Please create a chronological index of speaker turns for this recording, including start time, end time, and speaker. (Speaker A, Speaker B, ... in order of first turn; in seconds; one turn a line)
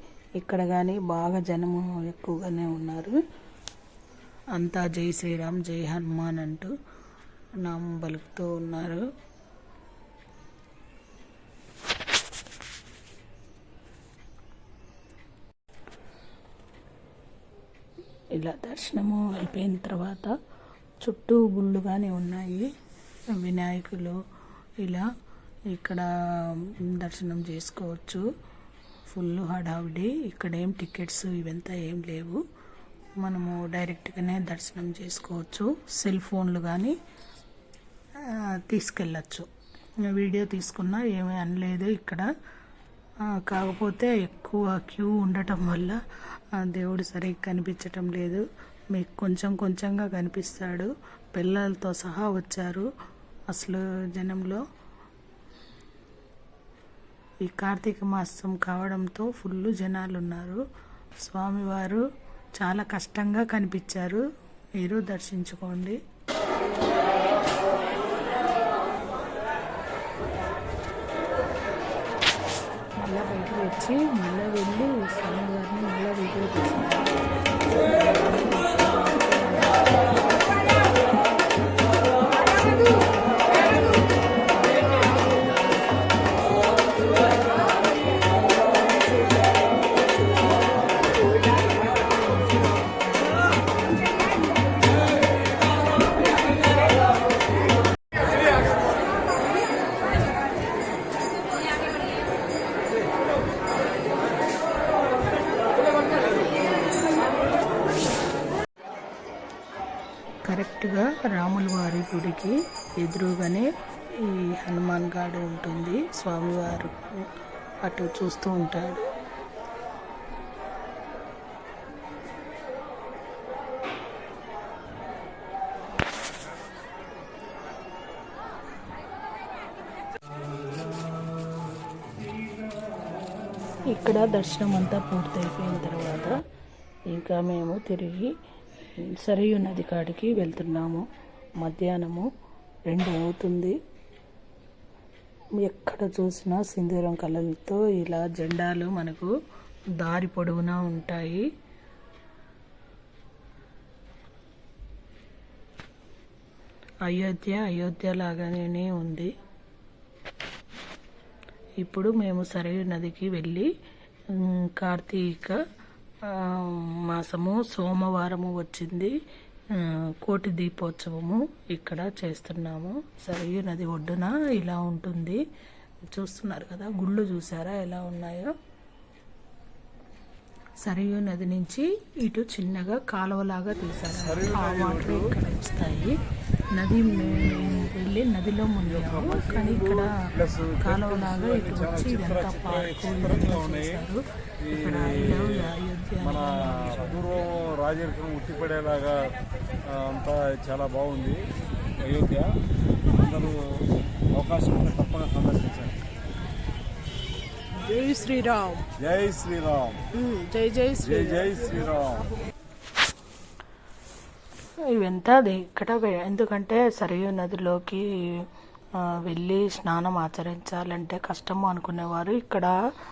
Speaker A: 0.4-3.2
Speaker A: 4.5-6.7
Speaker A: 7.6-9.0
Speaker A: 18.3-20.3
Speaker A: 21.0-22.7
Speaker A: 23.3-24.1
Speaker A: 24.8-25.1
Speaker A: 25.7-28.2
Speaker A: 29.1-32.4
Speaker A: 33.2-37.0
Speaker A: 38.2-39.5
Speaker A: 40.0-42.3
Speaker A: 43.2-46.0
Speaker A: 46.5-52.9
Speaker A: 53.5-54.6
Speaker A: 57.4-60.6
Speaker A: 61.2-62.0
Speaker A: 62.6-64.2
Speaker A: 64.8-66.0
Speaker A: 73.0-77.1
Speaker A: 77.7-79.9
Speaker A: 110.5-113.7
Speaker A: 114.2-117.0
Speaker A: 117.8-119.1
Speaker A: 133.9-136.3
Speaker A: 137.1-138.3
Speaker A: 139.0-141.0
Speaker A: 141.6-142.3
Speaker A: 142.9-143.7
Speaker A: 145.6-149.3
Speaker A: 150.0-151.4
Speaker A: 157.1-159.3
Speaker A: 161.8-163.7
Speaker A: 164.3-165.6
Speaker A: 166.3-169.1
Speaker A: 169.7-175.4
Speaker A: 176.1-178.5
Speaker A: 180.8-186.2
Speaker B: 184.1-185.3
Speaker A: 186.7-190.2
Speaker B: 187.2-187.9
Speaker B: 188.8-194.0
Speaker A: 190.8-197.2
Speaker B: 194.6-195.7
Speaker B: 196.2-199.3
Speaker B: 199.8-201.4
Speaker B: 202.0-202.6
Speaker B: 203.1-203.6
Speaker B: 204.3-206.0
Speaker C: 207.8-208.8
Speaker B: 209.0-210.0
Speaker C: 210.1-211.6
Speaker B: 211.0-212.2
Speaker A: 214.9-218.4
Speaker A: 219.0-222.7